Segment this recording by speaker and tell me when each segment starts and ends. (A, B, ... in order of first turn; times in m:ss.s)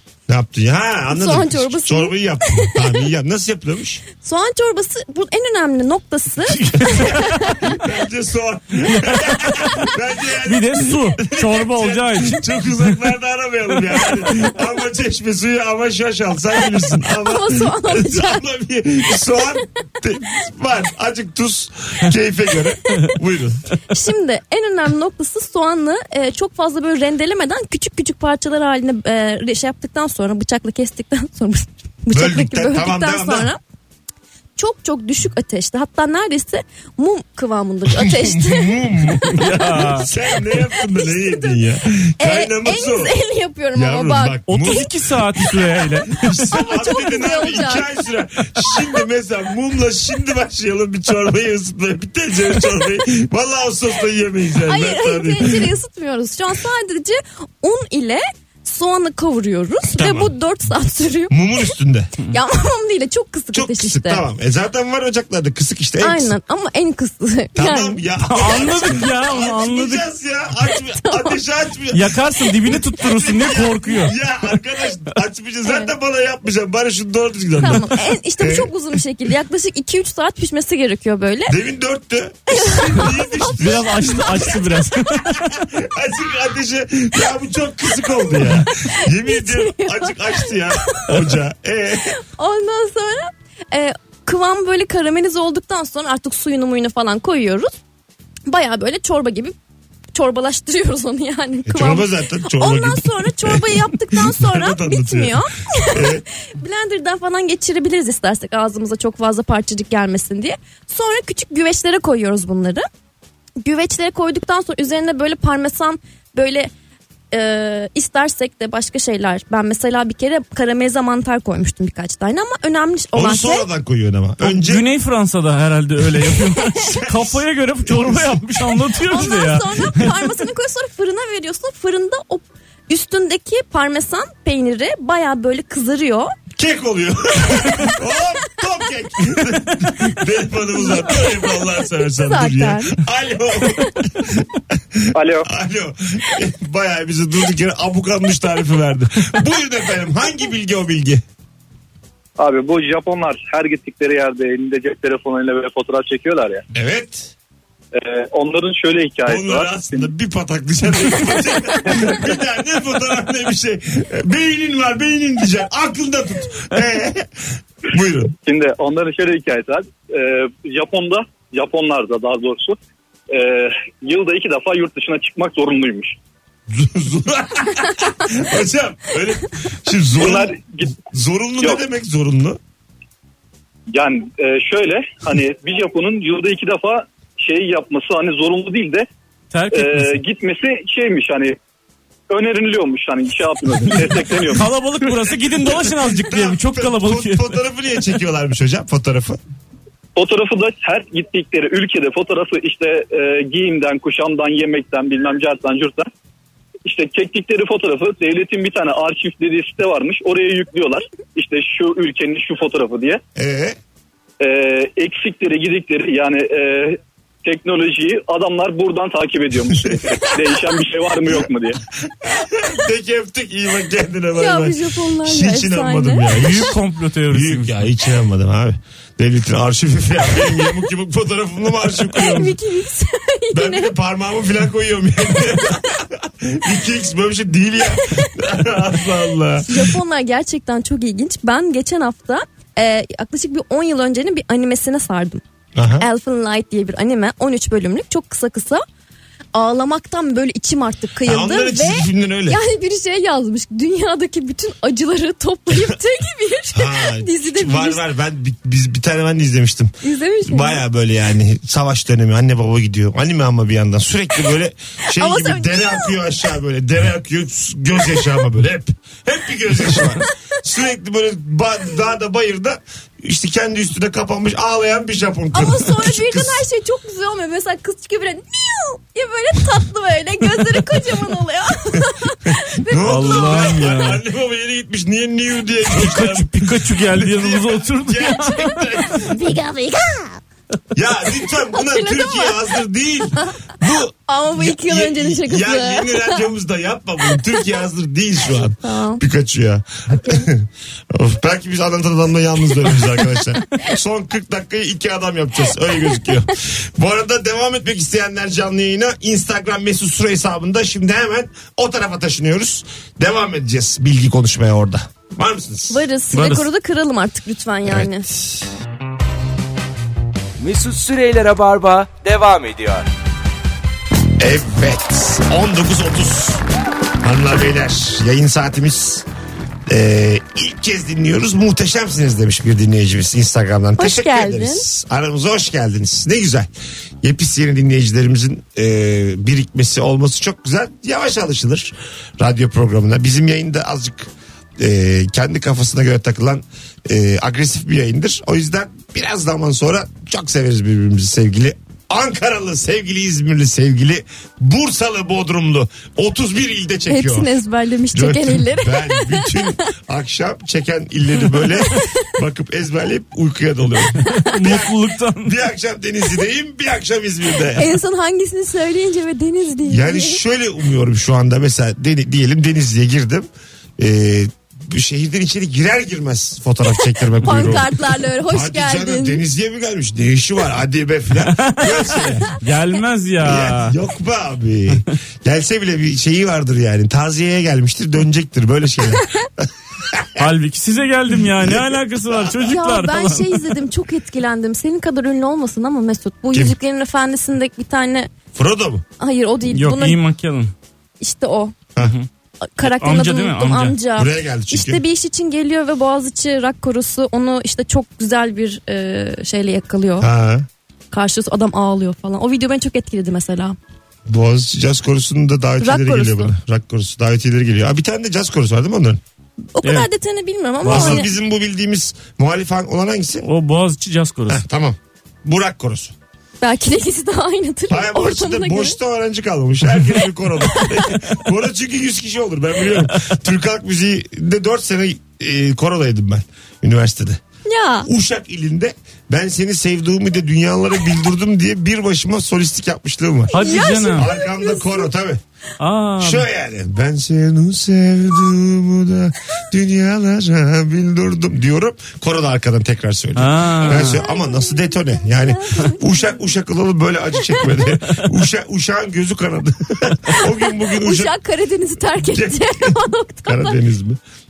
0:00.3-0:04.0 A
0:01.1-0:02.9 B
0:04.2-0:07.5 B
0:06.5-0:07.5 C
0:07.6-0:23.6 A
0:10.4-0:12.4 C
0:17.2-0:18.4 B
0:23.9-0:33.6 B
0:32.1-0:33.5 A
0:34.6-0:39.1 B
0:37.9-0:43.1 A
0:39.4-0:40.1 C
0:40.6-0:41.6 B
0:42.2-0:44.8 B
0:43.7-0:55.7 A
0:44.5-0:46.3 C
0:46.5-0:47.8 B
0:54.6-1:01.4 B
0:59.9-1:00.3 A
1:01.3-1:02.1 A
1:02.3-1:04.2 B
1:03.5-1:06.3 A
1:06.0-1:08.0 B
1:07.5-1:18.7 A
1:08.3-1:10.0 C
1:10.9-1:11.4 B
1:11.9-1:14.1 C
1:15.6-1:15.9 B
1:17.6-1:21.5 B
1:21.5-1:32.2 A
1:22.5-1:23.5 B
1:23.6-1:25.4 C
1:28.9-1:30.2 B
1:32.3-1:37.7 B
1:38.5-1:39.5 B
1:40.1-1:52.8 B
1:41.7-1:46.2 A
1:53.6-1:56.7 B
1:57.3-2:03.6 B
2:03.1-2:04.8 A
2:04.4-2:10.1 C
2:06.7-2:08.8 A
2:09.1-2:16.3 B
2:16.6-2:31.2 A
2:20.8-2:21.3 B
2:22.0-2:23.0 B
2:25.1-2:25.5 D
2:32.4-2:36.6 D
2:36.7-2:37.3 A
2:37.9-2:40.1 D
2:39.2-2:48.3 A
2:41.8-2:42.2 D
2:48.4-2:52.8 D
2:53.3-2:56.2 D
2:56.7-3:02.6 A
3:00.2-3:00.9 D
3:01.6-3:01.8 D
3:03.9-3:09.0 D
3:09.5-3:10.2 C
3:09.7-3:11.6 D
3:12.3-3:14.7 D
3:14.5-3:17.4 C
3:15.0-3:19.4 A
3:20.2-3:26.1 D
3:26.8-3:33.2 D
3:33.4-3:33.8 A
3:34.4-3:41.8 D
3:42.0-3:46.7 A
3:44.3-3:46.4 B
3:46.3-3:47.8 C
3:47.3-3:52.6 A
3:52.1-3:53.9 B
3:53.5-3:59.9 A
3:59.6-4:05.4 B
4:05.7-4:06.1 A
4:06.0-4:08.8 B
4:09.5-4:18.0 B
4:11.2-4:12.6 A
4:16.7-4:19.9 A
4:20.0-4:20.8 B
4:20.4-4:36.6 A
4:25.1-4:26.2 B
4:35.5-4:43.7 B
4:42.9-4:49.5 A
4:43.0-4:44.2 C
4:45.9-4:48.8 C
4:49.3-4:50.2 B
4:50.9-5:16.6 A
4:51.7-4:52.6 B
4:54.3-4:56.4 B
4:58.8-4:59.2 B
5:15.9-5:18.3 B
5:17.8-5:18.6 A
5:20.6-5:23.1 E
5:24.4-5:26.6 A
5:27.2-5:29.2 A
5:29.9-5:36.7 A
5:34.0-5:34.8 B
5:37.2-5:57.5 A
5:57.1-5:59.8 B
5:58.1-6:07.9 A
6:04.3-6:05.5 C
6:07.7-6:10.4 B
6:09.8-6:17.9 A
6:17.4-6:19.4 B
6:18.5-6:22.5 A
6:21.4-6:24.0 C
6:23.4-6:30.4 A
6:30.4-6:33.7 C
6:31.6-6:32.7 A
6:32.7-6:38.3 B
6:38.5-6:39.0 A
6:39.2-6:40.2 B
6:39.7-6:40.7 C
6:41.2-6:41.7 B
6:42.0-6:42.3 C
6:42.8-6:50.3 B
6:42.8-6:44.0 C
6:44.2-6:45.0 A
6:50.2-6:50.7 A
6:51.1-6:53.8 B
6:54.3-6:59.2 A
6:55.8-6:56.5 B
6:59.7-7:01.3 B
7:00.8-7:01.2 C
7:00.8-7:03.5 A
7:03.4-7:04.6 C
7:04.5-7:06.1 A
7:06.6-7:09.0 B
7:07.9-7:17.4 A
7:17.6-7:18.1 B
7:18.0-7:25.4 A
7:23.5-7:24.3 C
7:23.5-7:25.0 B
7:25.8-7:26.4 C
7:26.2-7:41.3 A
7:33.4-7:34.2 C
7:33.9-7:36.0 B
7:40.9-7:43.8 B
7:42.2-7:44.2 A